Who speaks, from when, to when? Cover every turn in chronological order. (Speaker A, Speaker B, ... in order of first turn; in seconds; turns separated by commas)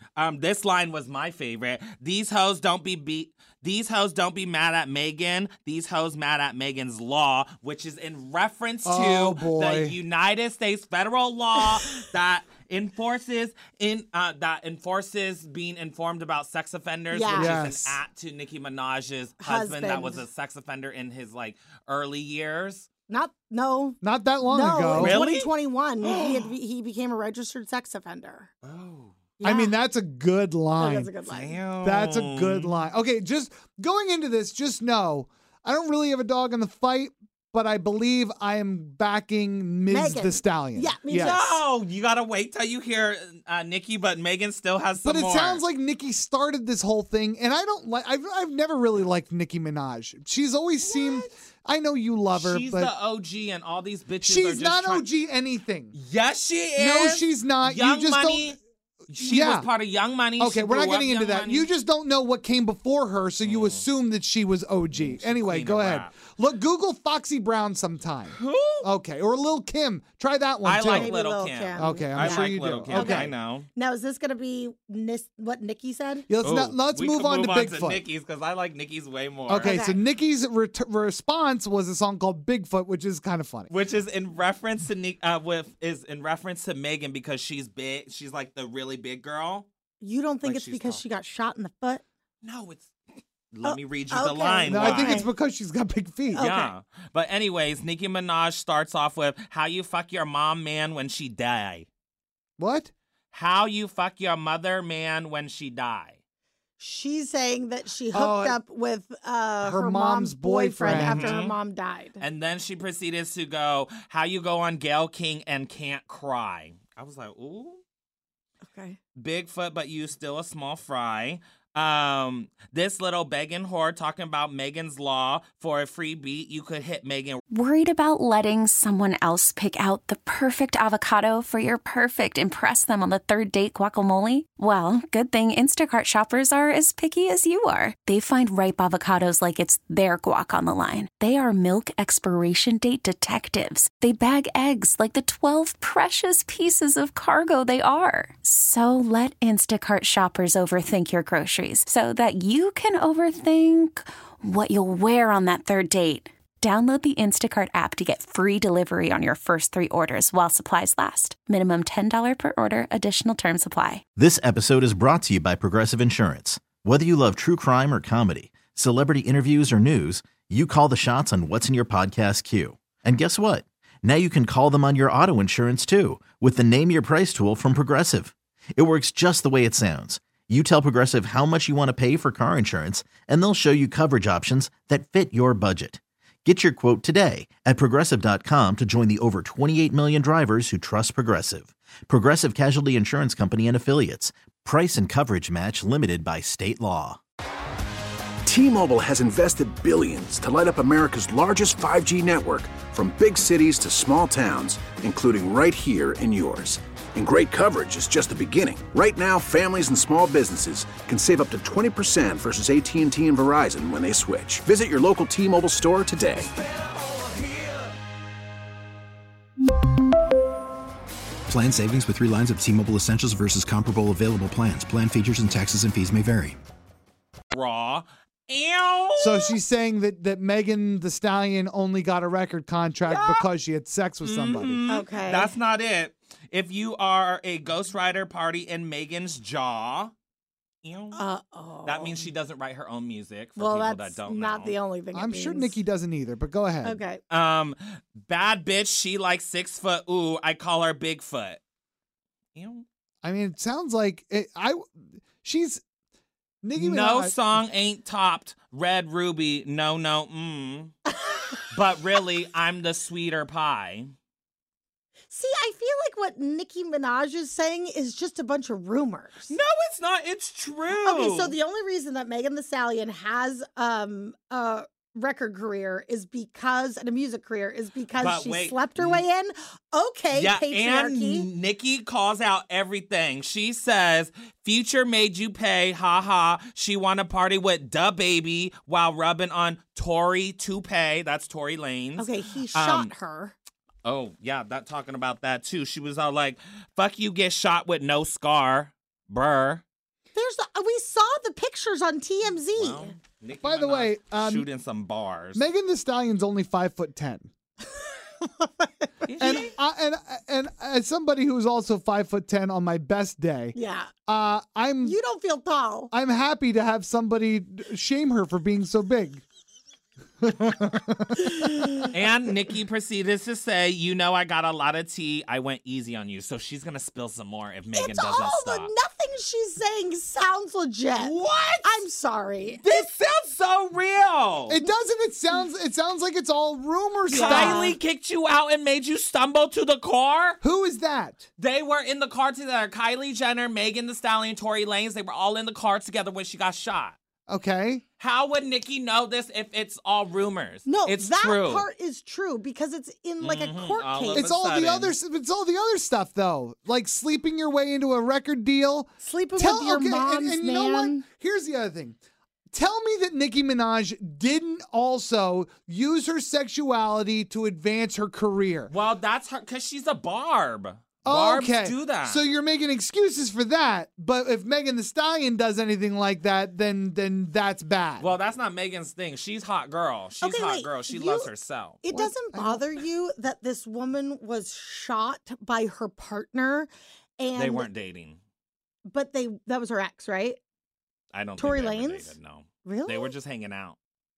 Speaker A: 0.2-22.9, Speaker B: 8.8-10.0, Speaker C: 17.1-17.6, Speaker B: 17.3-18.0, Speaker C: 19.4-20.3, Speaker C: 23.1-28.5, Speaker B: 24.0-25.2, Speaker A: 24.9-26.5, Speaker A: 28.6-29.2, Speaker C: 29.4-29.8, Speaker B: 29.4-31.1, Speaker C: 30.8-31.6, Speaker A: 31.3-32.8, Speaker B: 31.8-41.4, Speaker C: 39.9-41.6, Speaker A: 41.2-45.6, Speaker B: 45.0-52.9, Speaker C: 50.8-51.3, Speaker A: 52.3-55.1, Speaker B: 54.2-55.9, Speaker A: 55.9-58.6, Speaker B: 56.8-58.6, Speaker A: 59.1-61.7, Speaker B: 59.2-59.7, Speaker B: 60.4-71.1, Speaker A: 63.4-63.9, Speaker A: 64.9-66.1, Speaker A: 68.3-68.9, Speaker A: 70.6-73.7, Speaker C: 70.9-76.3, Speaker B: 71.8-73.3, Speaker B: 76.3-78.1, Speaker A: 76.4-79.7, Speaker B: 79.5-83.7, Speaker C: 79.6-80.0, Speaker A: 83.7-89.7, Speaker C: 90.0-92.0, Speaker A: 90.4-91.0, Speaker A: 92.4-92.9, Speaker A: 93.5-95.2, Speaker C: 93.6-95.3, Speaker B: 94.7-96.4, Speaker C: 96.3-96.7, Speaker A: 96.4-101.9, Speaker B: 102.6-102.9, Speaker A: 103.3-106.2, Speaker C: 106.8-112.2, Speaker B: 108.1-108.6, Speaker B: 109.6-111.4, Speaker A: 110.9-111.6, Speaker A: 112.2-117.8, Speaker C: 118.7-119.0, Speaker A: 119.2-127.4, Speaker D: 127.5-164.0, Speaker E: 164.2-197.2, Speaker F: 198.5-216.5, Speaker G: 221.5-226.6, Speaker A: 227.5-229.6, Speaker B: 229.2-234.9, Speaker A: 233.1-233.5, Speaker A: 234.2-240.1, Speaker C: 234.9-235.6, Speaker A: 240.8-241.2, Speaker C: 241.1-242.3, Speaker A: 241.8-244.8, Speaker C: 243.6-245.8, Speaker B: 245.1-247.0, Speaker C: 246.8-247.2, Speaker A: 247.3-251.6, Speaker A: 252.6-252.8, Speaker B: 253.2-254.8, Speaker B: 255.4-255.8, Speaker B: 256.6-257.4, Speaker A: 256.8-261.0, Speaker C: 261.2-261.5, Speaker A: 261.7-264.1, Speaker C: 265.3-269.6, Speaker A: 269.5-271.6, Speaker C: 270.9-281.5, Speaker A: 278.1-279.2, Speaker A: 280.3-293.1, Speaker C: 292.2-293.6, Speaker A: 294.0-299.8, Speaker C: 300.3-303.1, Speaker A: 302.7-305.6, Speaker B: 303.6-304.7, Speaker B: 305.6-307.5, Speaker C: 308.4-309.0, Speaker A: 309.2-309.7, Speaker B: 309.4-315.2, Speaker C: 313.7-314.1, Speaker C: 315.0-316.1, Speaker B: 316.1-319.4, Speaker B: 320.4-321.9, Speaker A: 322.1-328.9, Speaker C: 327.9-333.1, Speaker A: 331.2-332.0, Speaker A: 332.8-334.8, Speaker B: 334.7-337.9, Speaker C: 337.3-338.0, Speaker A: 337.3-340.6, Speaker B: 340.6-341.4, Speaker A: 341.6-347.2, Speaker B: 347.5-348.0, Speaker A: 348.2-351.9, Speaker C: 350.9-354.5, Speaker A: 353.4-355.2, Speaker B: 354.3-362.2, Speaker C: 359.2-361.2, Speaker B: 362.7-368.9, Speaker A: 368.9-372.4, Speaker B: 371.2-378.3, Speaker A: 378.2-382.0, Speaker C: 380.4-381.5, Speaker C: 382.0-387.9, Speaker B: 382.1-382.9, Speaker A: 387.5-388.4, Speaker C: 389.1-390.6, Speaker A: 391.3-394.0, Speaker C: 391.6-393.3